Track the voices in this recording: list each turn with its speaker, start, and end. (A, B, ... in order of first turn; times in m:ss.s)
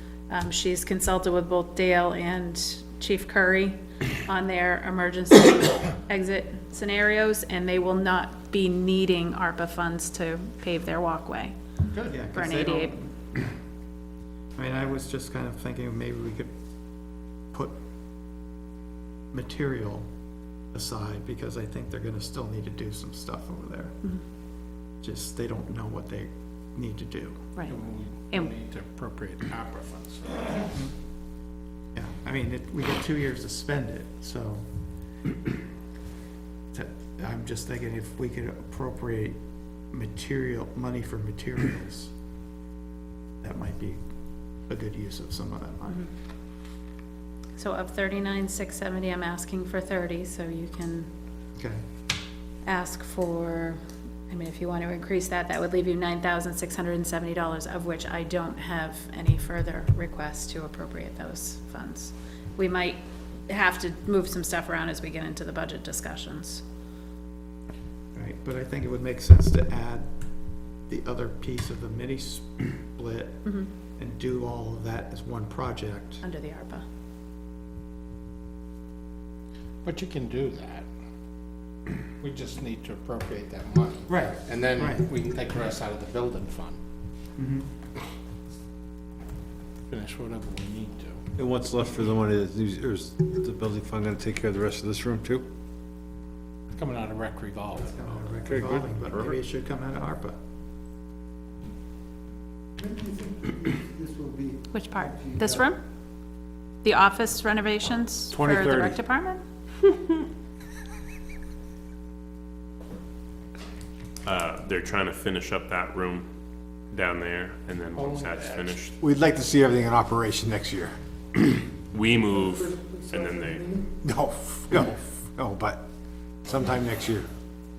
0:00.3-0:11.6 A
0:12.1-0:13.4 B
0:12.3-0:13.0 A
0:14.6-0:16.5 B
0:19.3-0:20.1 B
0:20.7-0:24.0 B
0:25.0-0:27.5 B
0:27.7-0:30.6 C
0:31.9-0:34.7 B
0:36.7-0:39.4 B
0:39.9-0:42.1 B
0:43.4-0:44.0 B
0:44.7-0:46.1 B
0:47.6-0:51.1 A
0:52.6-1:06.6 A
1:08.2-1:16.2 B
1:13.4-1:13.7 A
1:16.2-1:16.8 A
1:19.8-1:20.9 C
1:22.2-1:26.8 C
1:24.1-1:25.1 B
1:27.4-1:27.7 B
1:29.9-1:31.2 C
1:31.4-1:35.4 D
1:36.7-1:38.2 C
1:37.8-1:40.4 B
1:38.5-1:39.3 D
1:42.9-1:44.4 B
1:44.7-1:45.8 A
1:46.8-1:49.4 A
1:48.3-1:49.0 D
1:54.2-1:56.3 E
1:56.9-1:59.0 E
1:58.0-1:58.8 C
1:59.0-2:01.0 D
2:01.9-2:03.7 E
2:02.5-2:03.8 C
2:04.0-2:05.8 D
2:06.4-2:07.3 D